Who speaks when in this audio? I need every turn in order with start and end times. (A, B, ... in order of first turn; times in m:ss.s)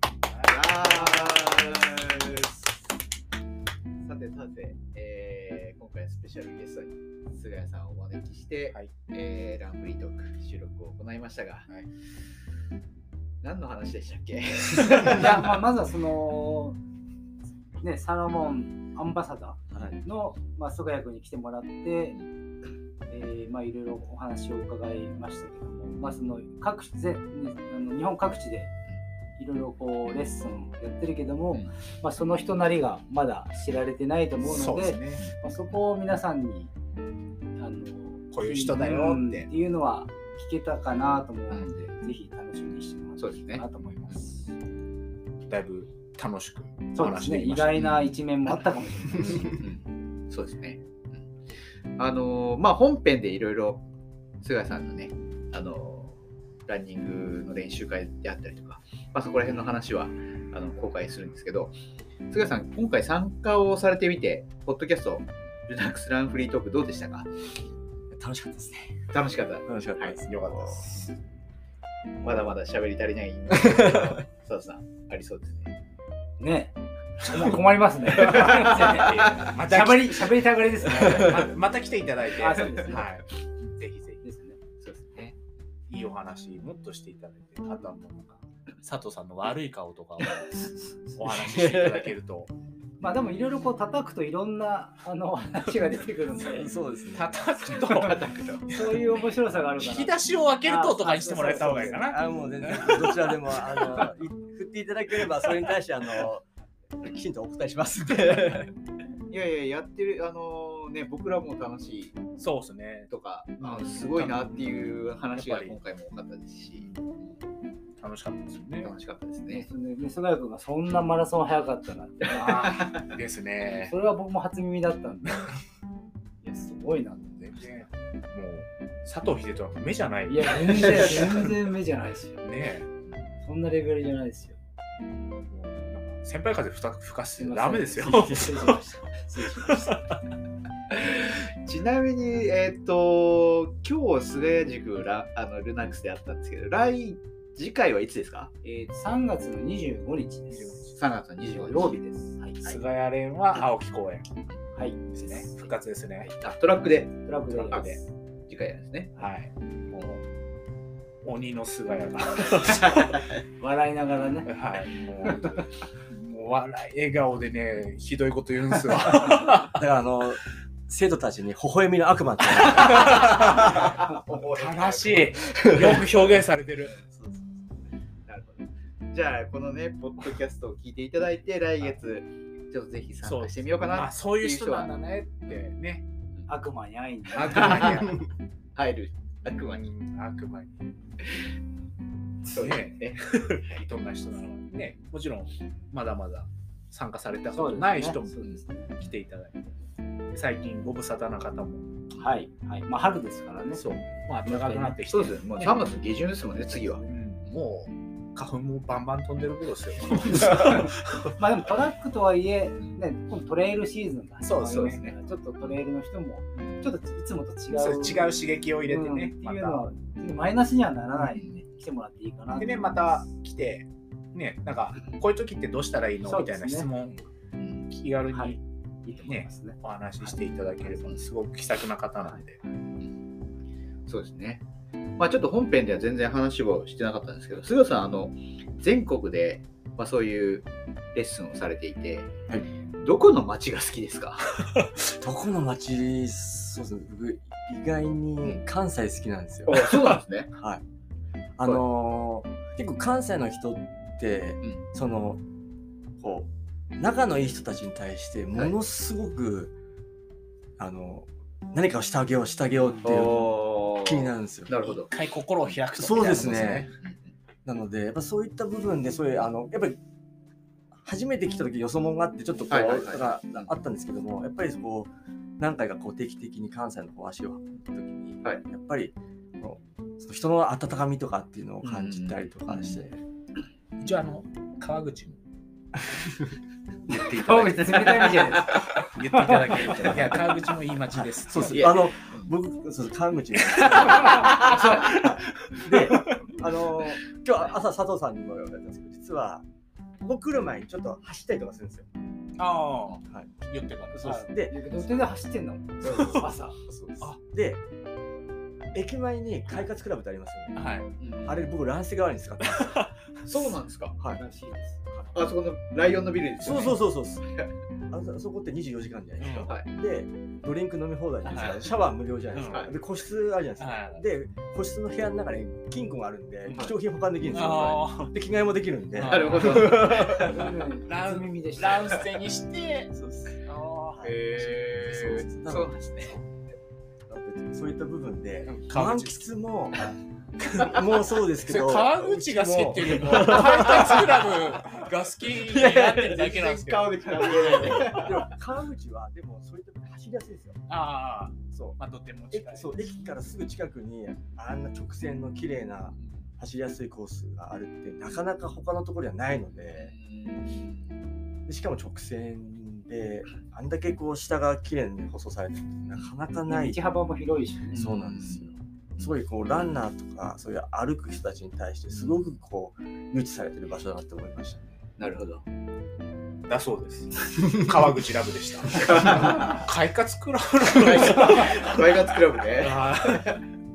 0:00.3-0:01.8 A
0:00.4-0:02.6 B
0:04.0-0:11.7 B
0:13.4-0:15.6 B
0:15.1-0:16.8 C
0:17.8-0:22.2 C
0:19.7-0:20.0 D
0:23.1-0:28.7 C
0:29.4-0:36.7 C
0:34.4-0:35.3 A
0:35.2-0:35.8 B
0:37.6-0:44.5 C
0:38.3-0:39.5 A
0:41.5-0:41.9 B
0:43.2-0:44.2 B
0:45.5-0:47.9 A
0:47.0-0:49.6 C
0:49.1-0:49.6 D
0:49.6-0:53.8 B
0:54.4-1:01.8 B
1:02.3-1:07.3 B
1:08.1-1:11.0 D
1:09.1-1:10.2 B
1:10.3-1:11.1 A
1:12.2-1:12.6 D
1:12.2-1:15.7 B
1:13.5-1:14.2 D
1:16.4-1:21.5 C
1:18.2-1:24.2 A
1:20.9-1:21.4 D
1:22.3-1:23.2 C
1:24.2-1:24.6 C
1:24.8-1:25.4 B
1:25.9-1:32.5 A
1:31.3-1:32.1 D
1:33.0-1:36.8 C
1:36.4-1:37.4 D
1:37.1-1:39.0 A
1:37.7-1:38.7 B
1:38.7-1:42.1 C
1:39.8-1:44.0 A
1:41.4-1:46.4 D
1:47.0-1:48.7 D
1:49.3-1:52.2 B
1:52.4-1:55.8 A
1:53.1-1:57.4 B
1:56.7-1:57.0 A
1:58.0-1:58.9 A
1:58.8-1:59.7 B
1:59.5-2:03.1 C
2:02.2-2:03.0 B
2:02.5-2:03.9 A
2:03.7-2:05.6 C
2:06.4-2:07.5 C
2:07.4-2:11.5 A
2:10.3-2:12.4 C
2:12.4-2:12.9 A
2:13.4-2:14.6 C
2:15.5-2:18.8 A
2:17.4-2:20.0 C
2:18.1-2:18.5 D
2:19.6-2:20.0 A
2:20.9-2:28.5 B
2:28.6-2:30.8 C
2:30.5-2:31.0 A
2:30.9-2:32.0 B
2:31.4-2:32.5 C
2:32.6-2:34.3 A
2:34.8-2:35.4 C
2:35.1-2:36.3 A
2:36.3-2:37.9 B
2:37.2-2:38.1 C
2:37.5-2:38.0 A
2:38.5-2:39.1 B
2:39.2-2:40.2 A
2:41.2-2:43.2 A
2:43.6-2:44.5 C
2:44.5-2:49.8 A
2:49.6-2:53.8 D
2:52.7-2:56.9 A
2:52.8-2:57.1 B
2:55.5-2:56.0 D
2:57.1-2:57.6 D
2:58.3-3:04.9 B
3:03.2-3:06.0 A
3:06.5-3:08.0 C
3:07.3-3:08.2 A
3:07.5-3:08.0 B
3:08.8-3:09.9 B
3:09.5-3:10.8 A
3:12.5-3:19.7 A
3:12.5-3:13.8 B
3:17.5-3:19.0 C
3:20.3-3:21.9 A
3:22.2-3:23.8 C
3:23.7-3:25.8 A
3:24.4-3:25.0 C
3:25.1-3:27.6 B
3:26.7-3:27.1 C
3:27.1-3:31.4 A
3:31.4-3:43.2 C
3:34.4-3:35.0 A
3:34.7-3:35.8 B
3:37.7-3:39.8 A
3:41.2-3:41.6 B
3:42.6-3:47.2 A
3:46.3-3:46.9 C
3:47.6-3:47.8 B
3:47.8-3:48.6 A
3:48.3-3:49.8 C
3:49.3-3:52.6 A
3:50.8-3:51.2 B
3:54.1-3:54.6 B
3:55.2-4:02.5 B
4:03.0-4:04.7 B
4:05.2-4:10.8 D
4:09.7-4:10.5 B
4:11.6-4:15.4 D
4:16.2-4:19.7 D
4:20.8-4:24.8 D
4:23.0-4:25.1 B
4:24.8-4:26.9 A
4:26.0-4:26.9 D
4:27.0-4:27.3 B
4:27.6-4:30.0 D
4:31.0-4:43.2 D
4:32.7-4:33.7 B
4:41.8-4:43.0 B
4:44.0-4:45.4 A
4:46.1-4:46.5 D
4:47.1-4:48.9 B
4:47.2-4:49.7 C
4:49.0-4:51.9 A
4:51.2-4:59.6 D
4:51.6-4:52.5 B
4:53.9-4:56.4 A
4:54.3-4:55.1 B
5:00.2-5:02.1 D
5:02.6-5:04.4 A
5:03.2-5:03.5 D
5:04.1-5:05.1 D
5:04.2-5:06.8 C
5:06.0-5:07.8 D
5:06.0-5:06.5 A
5:08.9-5:10.9 D
5:10.8-5:11.2 A
5:11.2-5:11.7 B
5:11.4-5:13.1 D
5:12.6-5:13.4 A
5:13.5-5:14.2 B
5:14.3-5:15.0 C
5:15.3-5:17.0 B
5:16.6-5:17.5 D
5:16.6-5:17.0 A
5:18.1-5:30.6 D
5:19.4-5:19.7 A
5:19.6-5:19.9 B
5:21.5-5:21.8 A
5:22.5-5:22.9 A
5:22.7-5:23.0 B
5:23.8-5:24.2 A
5:26.7-5:27.0 B
5:27.5-5:28.3 A
5:29.2-5:30.1 A
5:29.2-5:30.7 B
5:29.8-5:32.3 C
5:31.0-5:33.1 A
5:33.1-5:36.4 D
5:33.6-5:34.3 A
5:34.2-5:36.4 B
5:37.3-5:40.2 D
5:38.7-5:39.4 A
5:40.6-5:41.0 A
5:40.8-5:50.8 D
5:41.6-5:48.2 A
5:46.7-5:48.5 B
5:50.9-5:53.0 A
5:51.7-5:52.0 D
5:52.5-6:00.1 D
5:59.9-6:01.2 B
6:01.7-6:07.1 D
6:06.0-6:06.3 B
6:06.7-6:08.1 C
6:07.9-6:09.4 B
6:07.9-6:14.9 D
6:12.2-6:12.4 B
6:15.2-6:15.6 B
6:16.7-6:22.2 A
6:19.0-6:19.8 B
6:20.9-6:23.6 B
6:22.7-6:23.6 A